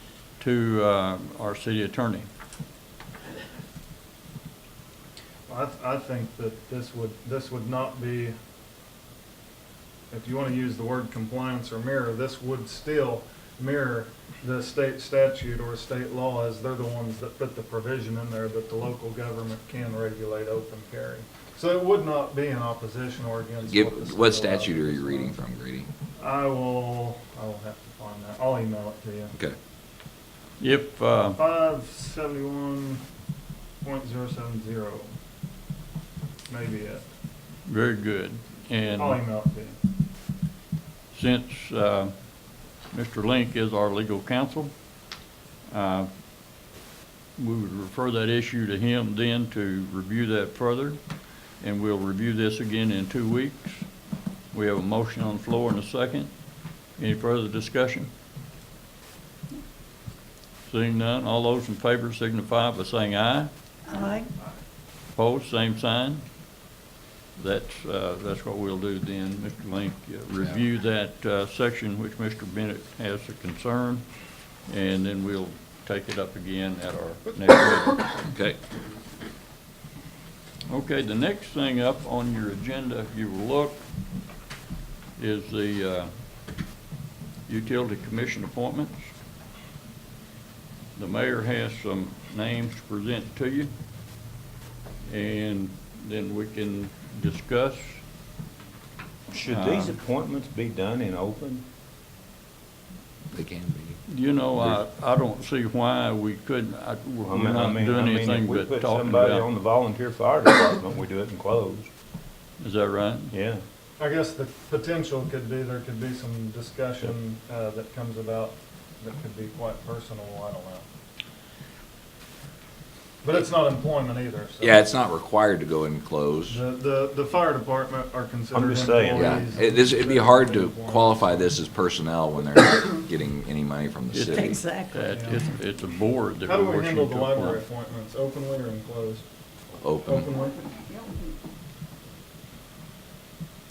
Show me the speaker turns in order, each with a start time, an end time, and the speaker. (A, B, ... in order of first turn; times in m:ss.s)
0:00.4-0:02.3 A
0:05.5-0:08.3 B
0:10.1-0:25.4 B
0:23.6-0:25.9 C
0:26.2-0:29.3 B
0:30.6-0:31.4 A
0:31.4-0:33.0 B
0:33.8-0:35.1 B
0:36.5-0:37.0 B
0:37.6-0:39.2 A
0:38.9-0:39.8 B
0:41.1-0:42.1 A
0:42.9-0:44.8 A
0:45.7-0:46.1 A
0:47.4-0:51.0 A
0:51.6-0:53.9 A
0:54.5-0:56.3 A
0:57.0-0:58.1 A
1:00.7-1:03.5 A
1:03.9-1:04.3 D
1:05.1-1:06.2 A
1:07.4-1:14.0 A
1:14.6-1:18.1 A
1:18.3-1:18.6 C
1:20.7-1:23.8 A
1:25.2-1:26.1 A
1:27.5-1:29.1 A
1:31.0-1:33.7 A
1:35.0-1:38.0 A
1:39.3-1:41.6 E
1:39.5-1:40.0 A
1:43.3-1:44.8 C
1:44.1-1:49.5 A
1:47.3-1:51.9 E
1:52.6-1:53.3 A
1:53.3-1:53.6 E
1:54.0-2:00.8 B
2:03.2-2:04.8 B
2:04.6-2:06.6 C
2:06.5-2:11.3 B
2:08.5-2:09.3 E
2:09.2-2:14.6 C
2:14.1-2:17.6 A
2:14.3-2:15.4 D
2:15.1-2:15.5 B
2:16.4-2:19.3 B
2:19.8-2:20.3 C
2:20.0-2:20.6 B
2:20.7-2:21.4 D